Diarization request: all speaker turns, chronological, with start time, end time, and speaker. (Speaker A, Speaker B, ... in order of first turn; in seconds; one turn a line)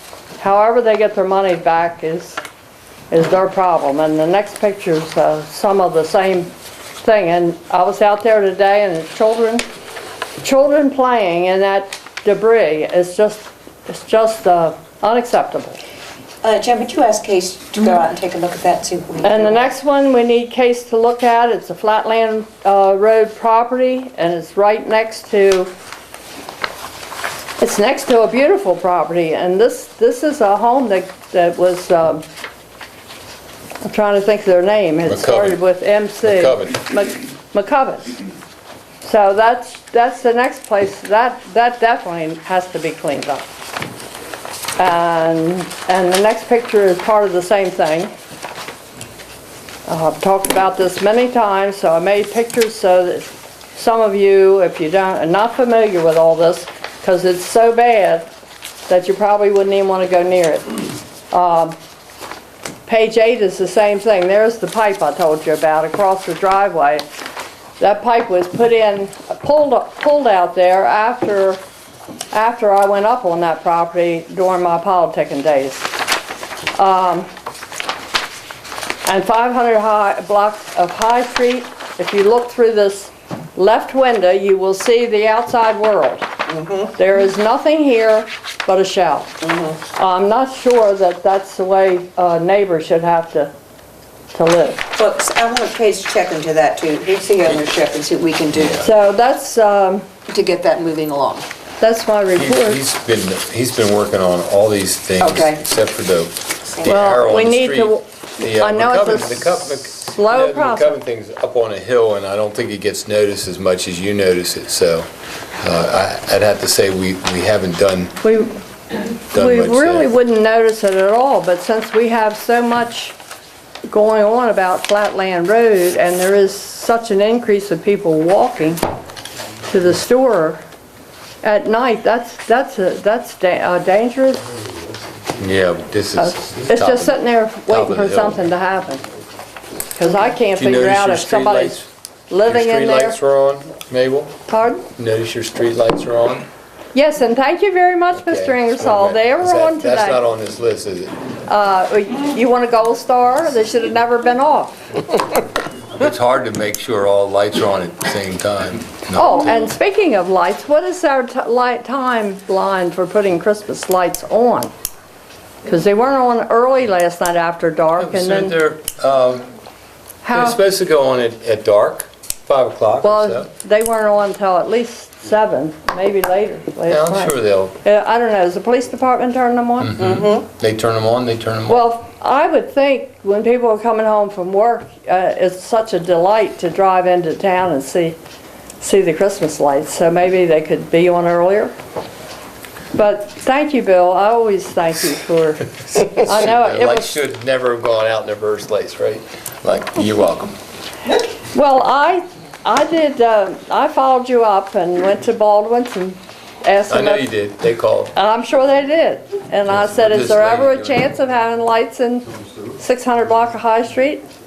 Speaker A: 0.4-2.4
Speaker A: 3.1-6.5
Speaker A: 7.0-9.6
Speaker A: 10.4-15.8
Speaker B: 16.4-19.7
Speaker A: 19.2-25.7
Speaker A: 27.6-32.2
Speaker A: 33.8-38.1
Speaker C: 35.0-35.6
Speaker C: 36.2-36.8
Speaker A: 39.0-43.5
Speaker A: 44.8-48.1
Speaker A: 49.9-58.3
Speaker A: 58.9-61.8
Speaker A: 62.9-67.0
Speaker A: 67.8-71.6
Speaker A: 72.3-76.0
Speaker A: 76.7-77.3
Speaker A: 79.0-86.3
Speaker B: 86.5-86.9
Speaker A: 87.0-89.3
Speaker B: 89.4-89.8
Speaker A: 89.9-93.5
Speaker A: 94.3-94.9
Speaker B: 94.9-98.9
Speaker A: 98.8-100.1
Speaker B: 100.3-101.5
Speaker A: 101.8-102.8
Speaker C: 102.3-115.1
Speaker B: 105.2-105.6
Speaker A: 106.8-111.0
Speaker C: 115.6-118.2
Speaker A: 118.2-123.1
Speaker C: 119.3-120.1
Speaker A: 123.9-128.8
Speaker A: 129.6-130.6
Speaker A: 131.4-134.4
Speaker C: 135.4-138.4
Speaker A: 136.2-139.1
Speaker A: 139.9-143.2
Speaker C: 140.5-141.9
Speaker C: 142.4-144.3
Speaker A: 144.5-144.9
Speaker C: 144.9-146.5
Speaker A: 146.9-150.2
Speaker C: 148.1-151.1
Speaker A: 151.5-154.8
Speaker C: 155.9-159.7
Speaker A: 159.1-164.7
Speaker A: 165.6-168.6
Speaker C: 168.0-169.5
Speaker A: 170.2-170.6
Speaker C: 170.3-173.5
Speaker A: 173.0-180.0
Speaker C: 176.9-177.7
Speaker C: 179.8-181.9
Speaker B: 180.0-180.4
Speaker A: 181.7-188.2
Speaker A: 188.8-191.7
Speaker A: 192.9-197.2
Speaker C: 196.0-200.6
Speaker A: 201.3-207.3
Speaker C: 206.9-208.1
Speaker A: 208.1-214.2
Speaker C: 209.7-211.0